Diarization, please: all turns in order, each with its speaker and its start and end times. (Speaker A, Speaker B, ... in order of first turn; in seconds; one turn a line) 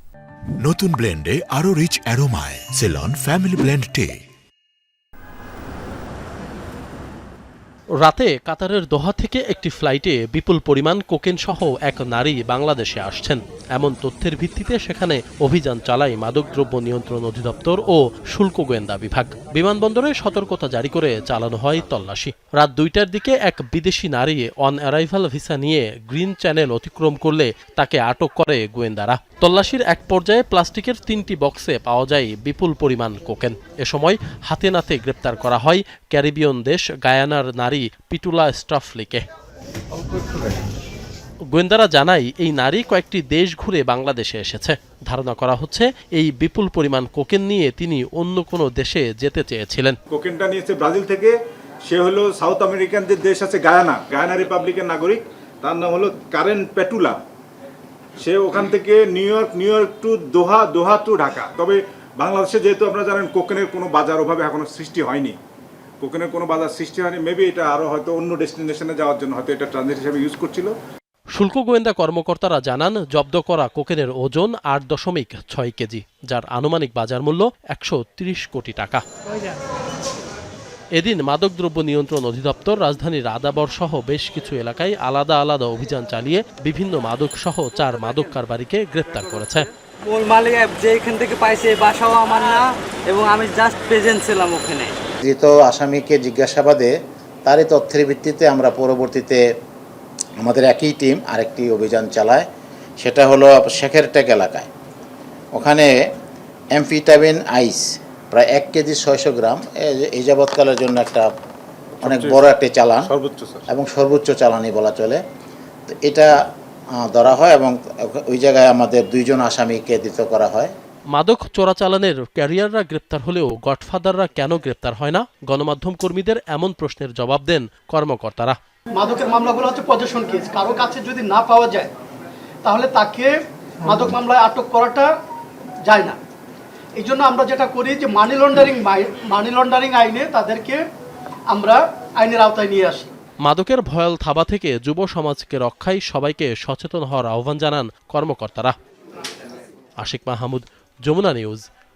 Speaker A: 0.6-4.2
Speaker B: 8.0-39.2
Speaker B: 41.5-50.0
Speaker C: 50.1-51.3
Speaker C: 51.9-57.2
Speaker C: 58.2-65.4
Speaker C: 66.0-70.7
Speaker B: 71.3-79.0
Speaker B: 81.0-89.7
Speaker D: 90.0-94.9
Speaker E: 95.2-96.9
Speaker E: 97.4-99.4
Speaker E: 100.4-102.5
Speaker E: 103.0-104.7
Speaker E: 105.5-105.9
Speaker E: 106.7-111.3
Speaker C: 112.0-112.5
Speaker E: 112.0-113.1
Speaker C: 113.0-113.7
Speaker E: 113.7-115.2
Speaker E: 115.9-116.3
Speaker E: 117.0-120.7
Speaker B: 121.1-128.6
Speaker F: 128.9-131.9
Speaker F: 132.6-135.1
Speaker F: 135.8-136.2
Speaker F: 136.9-140.8
Speaker F: 141.5-143.1
Speaker B: 143.4-148.7
Speaker B: 150.0-151.6